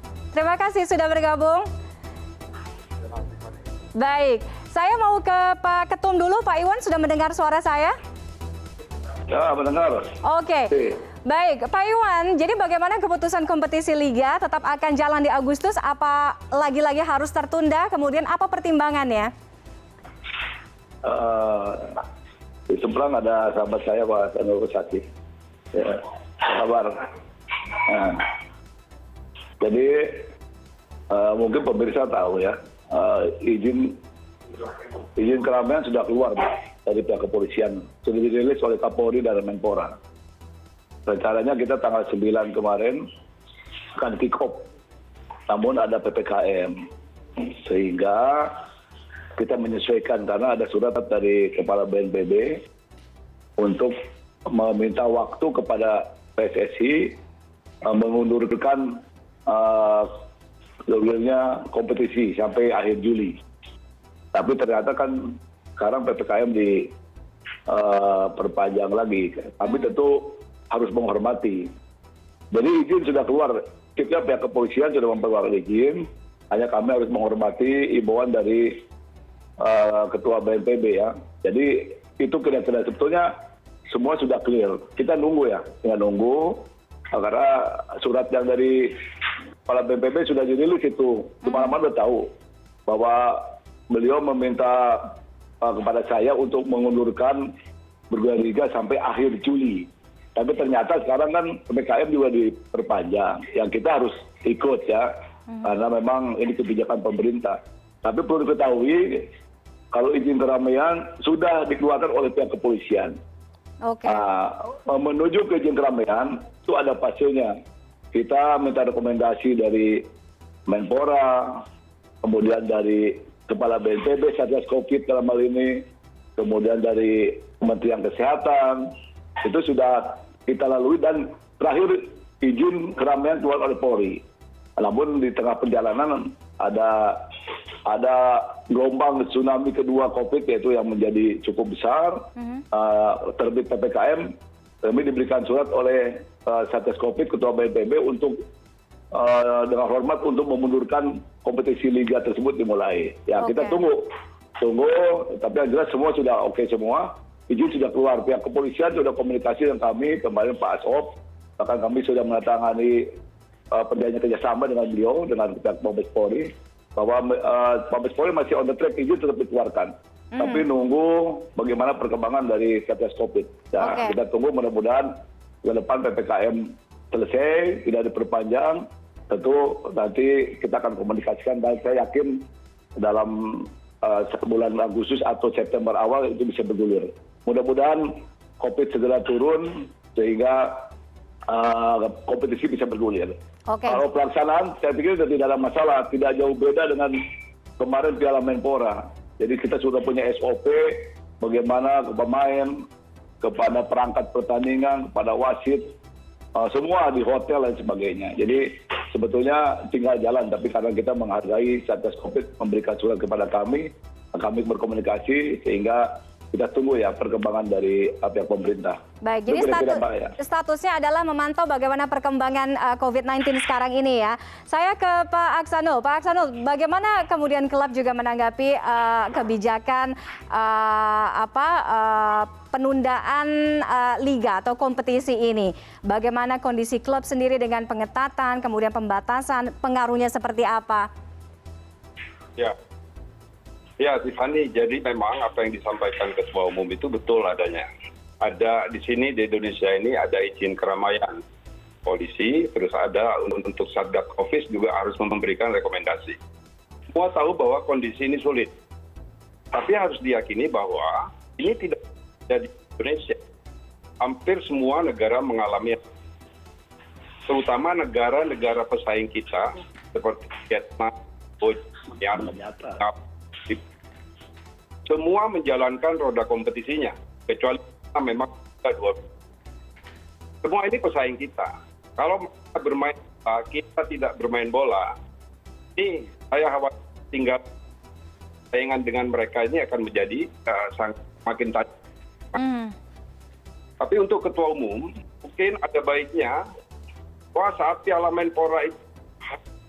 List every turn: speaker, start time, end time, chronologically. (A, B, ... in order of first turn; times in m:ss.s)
0:00.3-0:01.7 A
0:04.0-0:07.9 A
0:09.3-0:10.1 B
0:10.2-0:19.3 A
0:21.0-0:22.0 B
0:22.7-0:25.0 B
0:25.7-0:27.0 B
0:27.8-0:28.3 B
0:29.6-0:30.3 B
0:31.1-0:34.0 B
0:35.2-0:40.0 B
0:41.0-0:43.0 B
0:43.9-0:44.7 B
0:45.5-0:46.8 B
0:47.4-0:48.6 B
0:49.4-0:52.6 B
0:53.6-0:53.9 B
0:54.5-0:57.2 B
0:57.9-1:00.1 B
1:00.9-1:03.4 B
1:04.3-1:06.9 B
1:07.7-1:11.7 B
1:12.5-1:18.8 B
1:19.6-1:23.3 B
1:23.9-1:28.9 B
1:29.6-1:32.2 B
1:31.4-1:31.8 A
1:32.9-1:37.4 B
1:38.1-1:45.1 B
1:45.6-1:49.3 B
1:49.9-1:53.2 B
1:53.8-1:54.2 A
1:54.0-1:57.5 B
1:58.1-2:00.0 B
2:00.7-2:01.6 B
2:02.2-2:05.8 B
2:06.4-2:08.9 B
2:09.4-2:14.2 B
2:14.8-2:17.4 B
2:17.9-2:24.3 B
2:22.4-2:22.6 A
2:24.8-2:28.4 B
2:29.1-2:43.1 B
2:33.4-2:33.8 A
2:43.7-2:55.1 B
2:50.3-2:50.6 A
2:53.8-2:54.2 A
2:55.6-3:02.4 B
3:03.0-3:10.8 B
3:11.5-3:13.3 B
3:13.7-3:14.0 A
3:13.8-3:17.2 B
3:17.8-3:22.8 B
3:23.4-3:25.9 B
3:26.6-3:40.3 B
3:39.2-4:01.1 A
4:04.0-4:07.9 C
4:08.4-4:11.4 C
4:12.0-4:16.4 C
4:17.1-4:18.7 C
4:19.7-4:23.4 C
4:24.2-4:26.0 C
4:27.5-4:33.8 C
4:32.3-4:33.0 B
4:35.0-4:39.2 C
4:40.6-4:45.1 C
4:46.0-4:47.6 C
4:48.7-4:51.9 C
4:52.5-4:52.9 A
4:54.0-4:56.6 C
4:57.5-4:59.6 C